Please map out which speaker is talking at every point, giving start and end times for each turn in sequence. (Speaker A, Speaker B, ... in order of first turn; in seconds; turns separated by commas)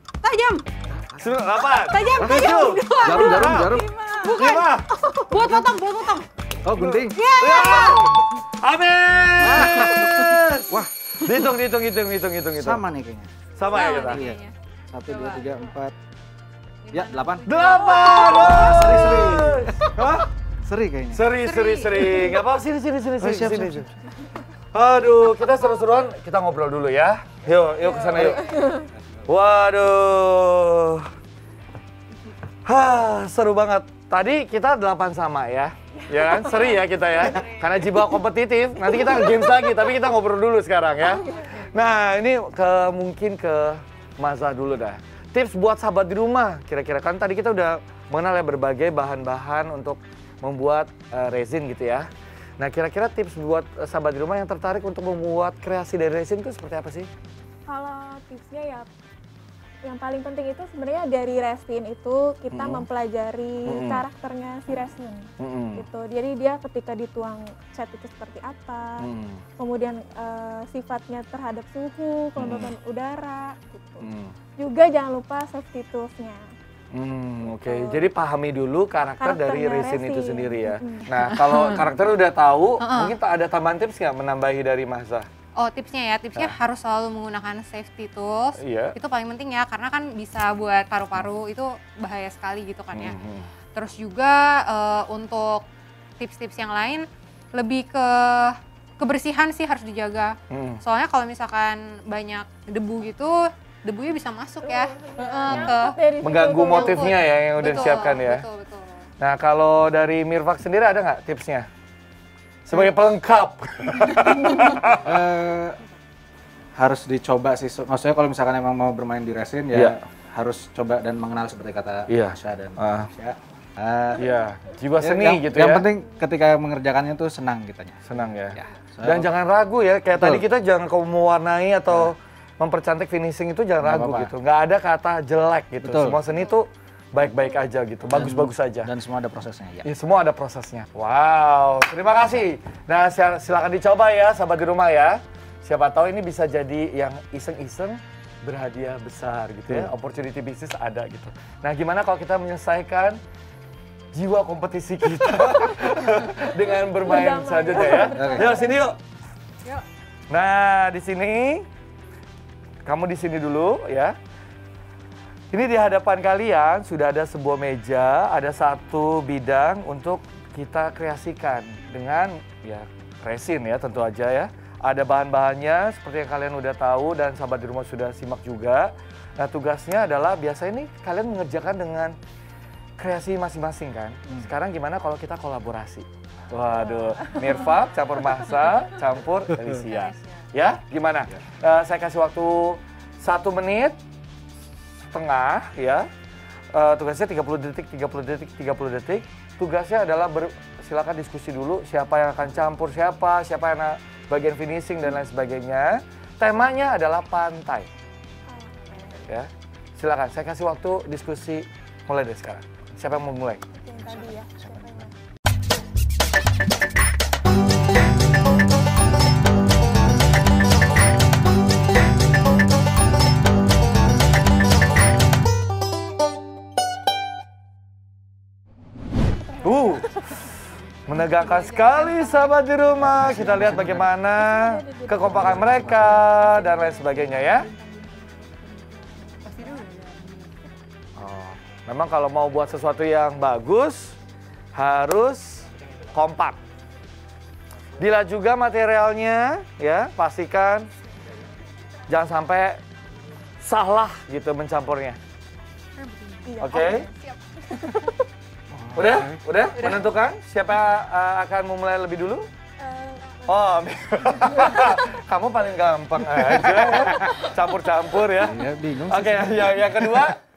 Speaker A: 0.2-0.7, Speaker B: 0.9-1.3, Speaker C: 1.2-3.8, Speaker A: 1.6-4.7, Speaker B: 2.2-3.9, Speaker C: 4.3-4.9, Speaker A: 5.2-6.3, Speaker B: 5.3-5.7, Speaker B: 6.6-7.2, Speaker C: 6.8-12.8, Speaker A: 7.2-8.3, Speaker B: 9.4-10.2, Speaker A: 9.5-10.3, Speaker B: 12.5-13.3, Speaker C: 13.6-14.2, Speaker A: 13.7-14.6, Speaker B: 13.9-16.0, Speaker A: 15.1-15.4, Speaker A: 16.8-19.2, Speaker B: 16.9-17.6, Speaker C: 17.5-20.3, Speaker D: 17.9-18.6, Speaker B: 18.1-21.3, Speaker C: 21.1-23.9, Speaker A: 21.4-22.4, Speaker B: 23.2-23.9, Speaker C: 24.7-28.6, Speaker D: 27.8-28.9, Speaker C: 29.2-31.1, Speaker C: 32.7-52.1, Speaker A: 36.5-37.9, Speaker C: 52.6-57.1, Speaker D: 57.7-58.9, Speaker D: 59.8-69.1, Speaker C: 62.5-62.9, Speaker C: 63.7-64.0, Speaker C: 65.4-65.9, Speaker C: 69.0-69.4, Speaker D: 69.6-74.0, Speaker C: 72.4-72.7, Speaker C: 74.0-74.3, Speaker D: 74.6-76.5, Speaker C: 76.9-85.3, Speaker D: 77.7-78.1, Speaker D: 79.2-81.1, Speaker A: 81.2-81.9, Speaker A: 82.8-83.2, Speaker A: 85.6-93.2, Speaker C: 88.6-89.0, Speaker C: 92.9-93.5, Speaker A: 93.8-95.6, Speaker A: 96.2-106.0, Speaker C: 100.5-100.8, Speaker D: 104.6-107.1, Speaker C: 106.2-108.5, Speaker A: 106.7-109.0, Speaker C: 109.2-111.7, Speaker C: 112.7-115.2, Speaker B: 115.0-115.8, Speaker B: 116.8-124.2, Speaker C: 122.1-123.1, Speaker C: 124.2-125.9, Speaker B: 125.0-129.3, Speaker C: 128.1-138.9, Speaker B: 130.2-130.4, Speaker B: 133.8-134.3, Speaker B: 135.8-136.2, Speaker B: 138.1-139.9, Speaker C: 139.8-153.2, Speaker C: 154.1-159.0, Speaker D: 157.0-158.8, Speaker B: 158.1-158.5, Speaker C: 160.3-161.7, Speaker C: 162.8-164.2, Speaker C: 165.5-182.2, Speaker C: 183.0-194.0, Speaker A: 189.9-190.4, Speaker C: 195.1-196.1, Speaker C: 196.7-207.9, Speaker D: 208.5-209.2, Speaker C: 209.2-213.6, Speaker D: 213.7-215.1, Speaker D: 229.4-230.3, Speaker C: 229.6-230.6, Speaker A: 231.1-232.6, Speaker C: 231.1-237.7, Speaker B: 233.0-234.1, Speaker D: 234.4-239.9, Speaker B: 235.2-236.3, Speaker A: 239.4-240.5, Speaker C: 241.2-244.2, Speaker C: 244.8-246.6, Speaker C: 248.0-250.9, Speaker C: 252.1-252.8, Speaker C: 253.6-255.2, Speaker A: 256.0-256.7, Speaker D: 256.5-258.1, Speaker C: 256.6-257.1, Speaker B: 258.7-259.4, Speaker C: 258.9-262.5, Speaker A: 259.8-260.1, Speaker D: 262.8-263.6, Speaker C: 263.5-270.4, Speaker D: 264.5-264.9, Speaker B: 266.4-267.3, Speaker B: 268.4-270.1